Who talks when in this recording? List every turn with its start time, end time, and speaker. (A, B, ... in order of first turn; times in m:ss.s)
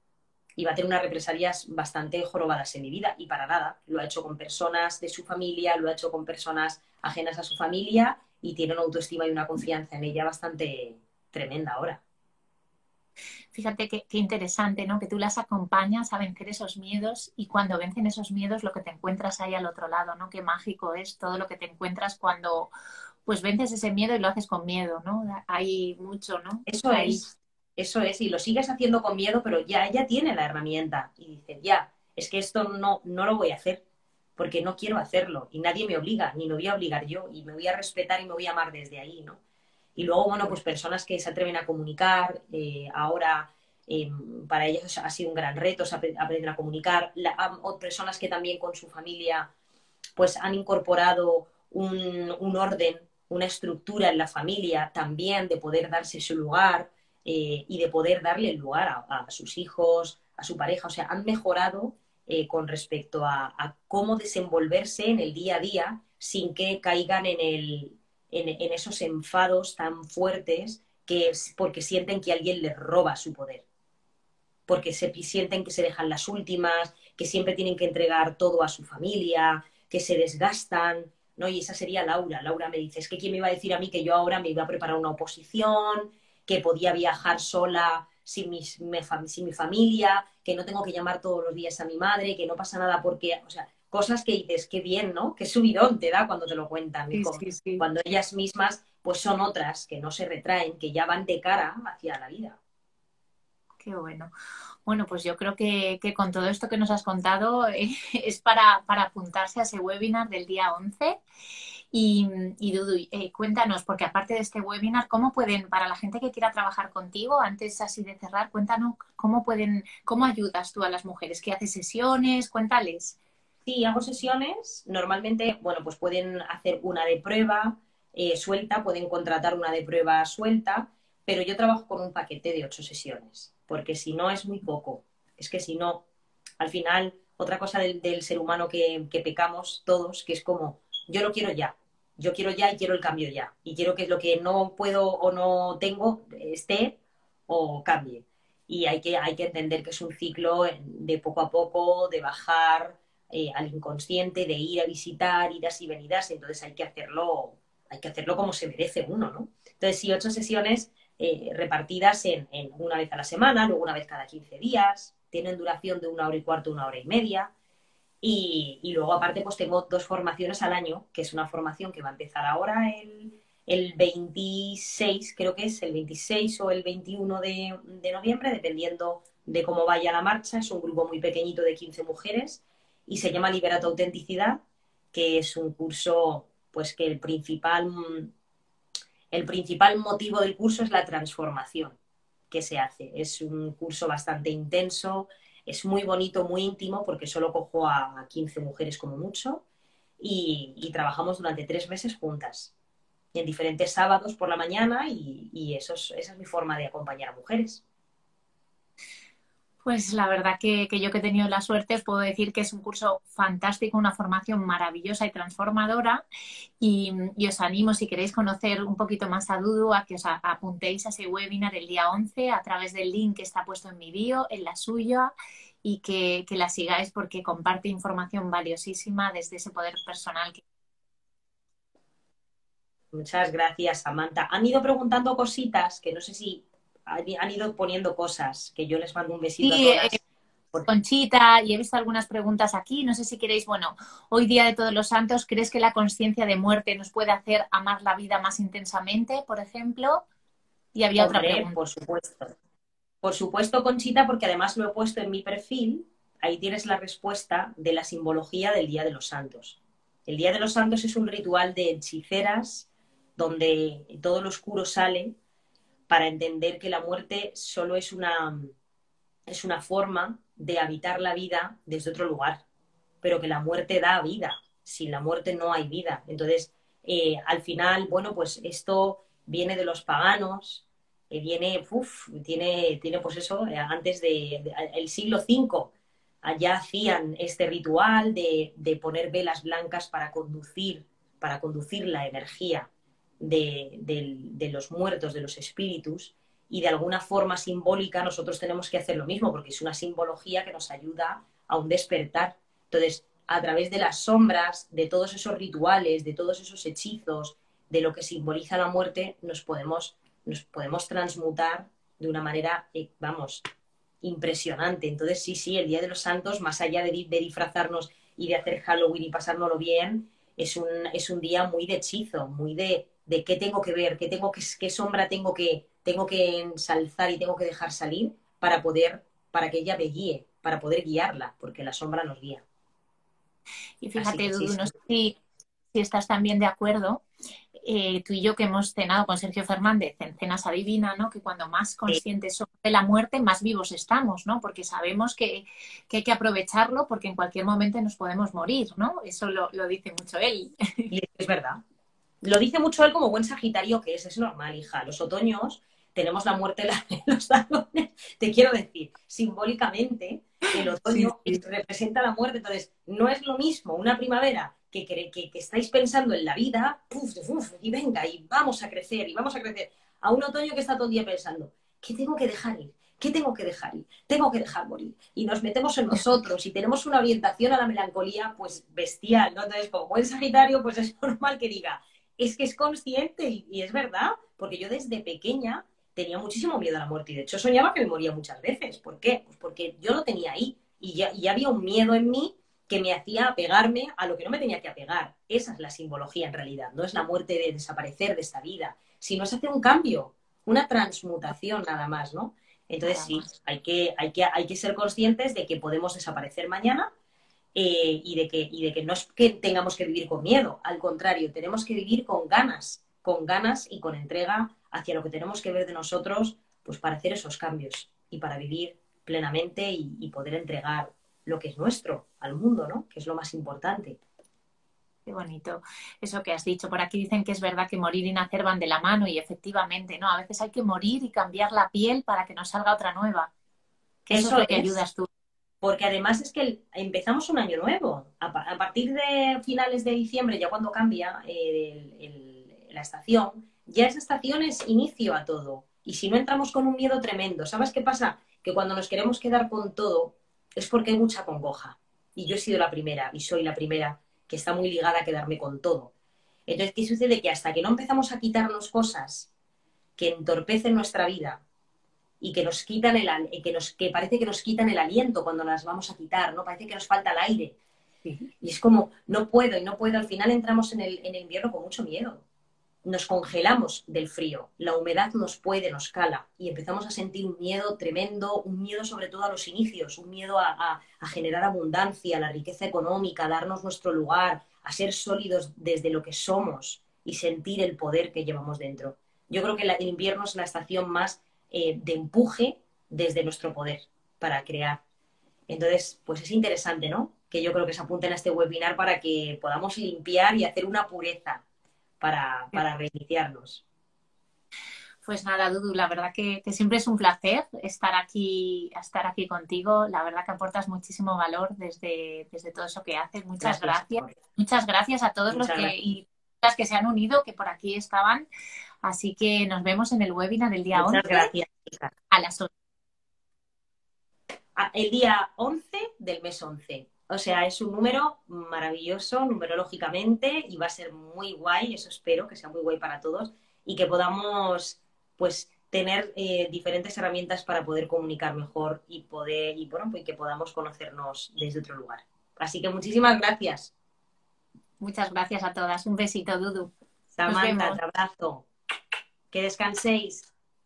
0:00.6-0:12.0 A
0:13.5-0:22.7 B
0:23.2-0:27.3 B
0:26.7-0:33.8 A
0:34.4-0:39.4 A
0:40.0-0:49.5 A
0:50.2-1:13.6 A
1:14.7-1:42.6 A
1:37.1-1:37.8 B
1:43.8-1:44.3 B
1:44.9-1:51.2 B
1:51.9-2:03.2 B
2:03.7-2:16.0 A
2:16.6-2:47.5 A
2:48.2-3:04.6 A
3:05.1-3:08.3 A
3:09.3-3:12.0 A
3:12.5-3:19.6 A
3:20.2-3:22.7 A
3:23.3-3:27.8 A
3:29.8-3:36.2 B
3:36.8-3:45.3 B
3:45.8-3:50.6 B
3:53.1-4:00.2 A
3:59.6-4:00.2 B
4:00.9-4:10.2 B
4:11.0-4:11.8 B
4:11.2-4:12.5 A
4:13.2-4:25.4 A
4:26.1-4:28.7 A
4:29.5-4:32.6 A
4:33.2-4:52.9 A
4:53.4-5:13.6 A
5:14.2-5:32.6 A
5:34.0-5:35.4 B
5:34.2-5:34.9 A
5:35.9-5:37.2 B
5:37.8-5:51.1 B
5:51.1-5:51.8 A
5:52.4-6:47.1 A
6:01.0-6:01.6 B
6:43.0-6:43.5 B
6:47.7-7:04.2 A
7:05.3-7:13.5 B
7:14.3-7:15.3 B
7:14.3-7:15.0 A
7:15.8-7:36.1 A
7:36.7-7:39.5 A
7:40.2-7:41.6 A
7:42.4-7:47.8 A
7:48.6-7:52.4 A
7:53.0-8:15.0 A
8:15.7-8:21.6 A
8:22.2-8:23.8 A
8:25.2-8:38.5 B
8:33.6-8:34.4 A
8:35.5-8:35.9 A
8:39.0-8:41.6 B
8:40.9-8:42.1 A
8:42.3-8:42.7 B
8:44.8-9:03.9 A
9:05.0-9:06.9 B
9:07.4-9:08.7 A
9:07.5-9:08.0 B
9:09.5-9:10.5 A